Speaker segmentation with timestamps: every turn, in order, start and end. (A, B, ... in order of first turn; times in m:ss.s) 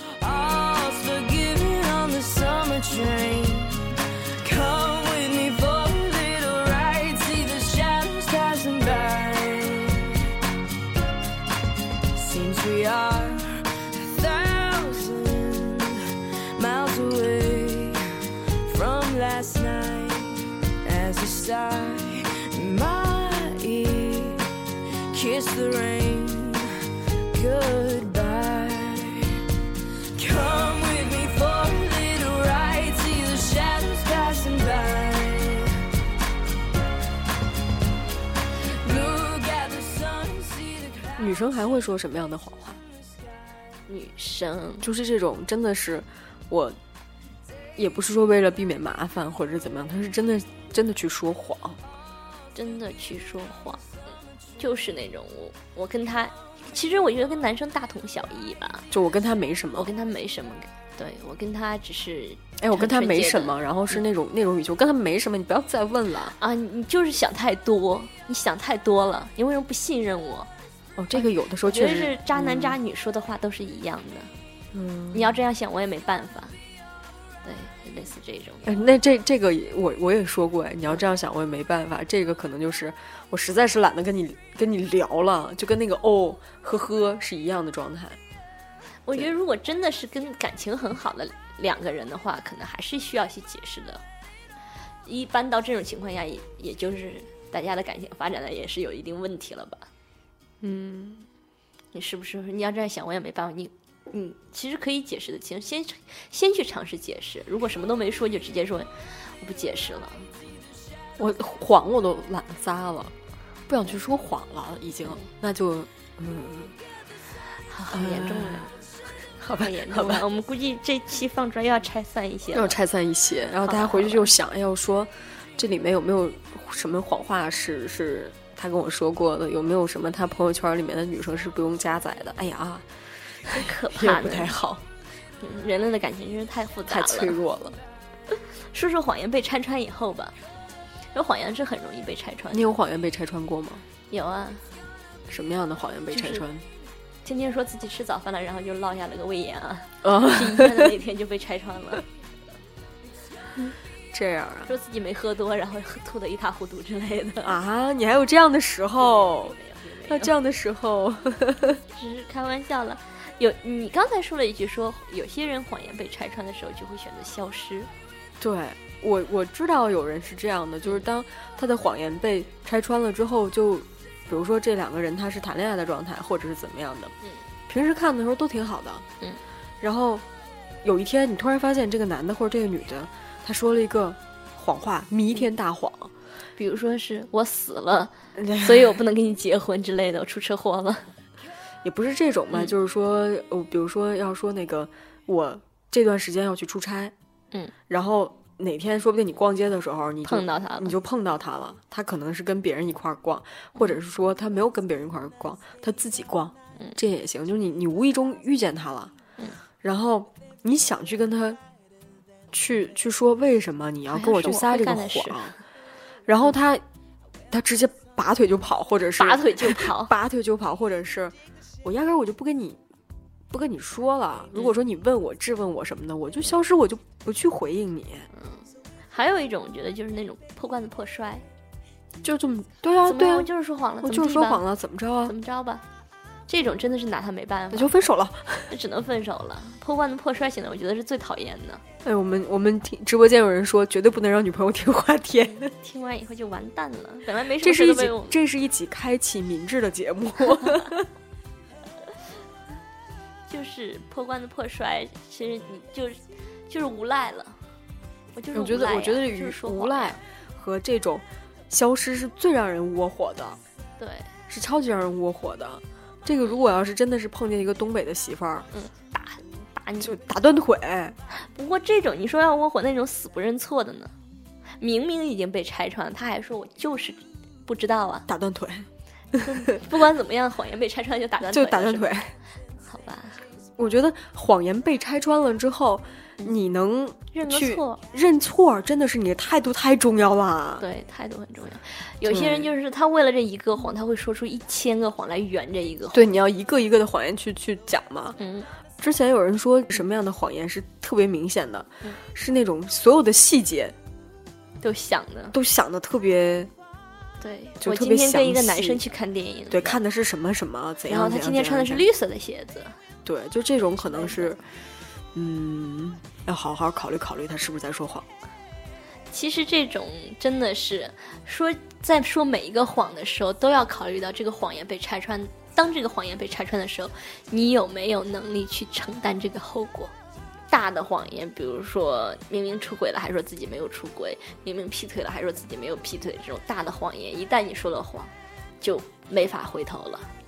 0:00.2-0:10.2 A
0:12.2-0:16.0 A
0:16.6-0:18.0 A
0:18.6-0:24.4 A
0:25.1-0:26.7 A
0:27.3-0:29.3 A
0:30.2-0:35.7 A
0:38.8-0:41.3 A
0:41.2-0:42.8 B
0:43.9-0:44.9 C
0:44.8-0:46.8 B
0:47.8-0:51.8 B
0:52.5-0:53.8 C
0:54.6-0:58.9 C
0:58.9-0:59.9 B
0:59.8-1:04.0 C
1:02.6-1:06.4 B
1:06.4-1:10.5 C
1:11.0-1:12.8 B
1:11.1-1:14.3 C
1:14.7-1:15.3 B
1:15.1-1:16.6 C
1:17.4-1:18.8 C
1:18.6-1:28.2 B
1:29.1-1:34.0 C
1:35.1-1:39.9 C
1:40.6-1:41.2 B
1:41.9-1:50.3 C
1:51.2-1:53.1 B
1:53.7-1:56.8 B
1:57.7-1:58.7 C
1:57.9-1:58.7 B
1:59.4-2:00.2 B
1:59.5-2:02.8 C
2:02.5-2:12.9 B
2:03.6-2:04.3 C
2:13.5-2:14.8 B
2:13.5-2:14.6 C
2:15.4-2:17.4 C
2:16.9-2:17.8 B
2:18.3-2:20.4 C
2:21.1-2:22.7 C
2:22.5-2:23.8 B
2:24.1-2:24.7 C
2:25.3-2:26.6 B
2:26.1-2:26.4 C
2:27.2-2:32.0 C
2:30.0-2:30.9 B
2:33.6-2:34.7 B
2:34.7-2:37.6 C
2:37.4-2:39.6 B
2:39.0-2:40.3 C
2:40.1-2:41.8 B
2:41.9-2:47.9 C
2:48.4-2:57.1 B
2:57.7-2:59.1 B
2:59.8-3:00.3 B
3:00.8-3:06.1 B
3:06.6-3:11.1 C
3:08.4-3:09.0 B
3:11.8-3:17.1 B
3:17.9-3:29.1 B
3:20.2-3:20.9 C
3:29.8-3:31.6 B
3:32.5-3:35.6 B
3:34.1-3:35.5 C
3:36.3-3:36.8 B
3:37.5-3:42.8 B
3:39.2-3:40.1 C
3:43.5-3:48.3 B
3:48.3-3:51.4 C
3:52.2-3:55.4 B
3:53.0-3:54.6 C
3:55.2-3:55.8 C
3:56.5-3:58.1 C
3:57.7-3:58.7 B
3:58.7-4:01.8 C
4:02.0-4:05.7 B
4:05.8-4:08.4 C
4:07.6-4:11.1 B
4:13.5-4:17.6 C
4:18.4-4:20.2 C
4:18.5-4:23.6 B
4:24.0-4:24.3 C
4:24.5-4:28.7 B
4:28.7-4:30.2 C
4:30.0-4:31.2 B
4:31.3-4:34.1 C
4:34.8-4:38.3 C
4:38.3-4:39.5 B
4:39.4-4:42.2 C
4:41.5-4:42.4 B
4:42.8-4:43.4 C
4:43.8-4:50.8 B
4:47.3-4:48.0 C
4:50.8-4:56.3 C
4:52.2-4:52.7 B
4:56.1-4:58.4 B
4:58.4-4:58.7 C
4:59.0-5:03.9 B
5:04.8-5:05.6 C
5:05.5-5:06.7 B
5:07.4-5:10.0 C
5:07.8-5:09.0 B
5:09.7-5:12.1 B
5:11.1-5:13.0 C
5:13.2-5:14.6 B
5:14.1-5:14.6 C
5:15.3-5:18.3 B
5:19.3-5:30.1 C
5:30.7-5:40.3 C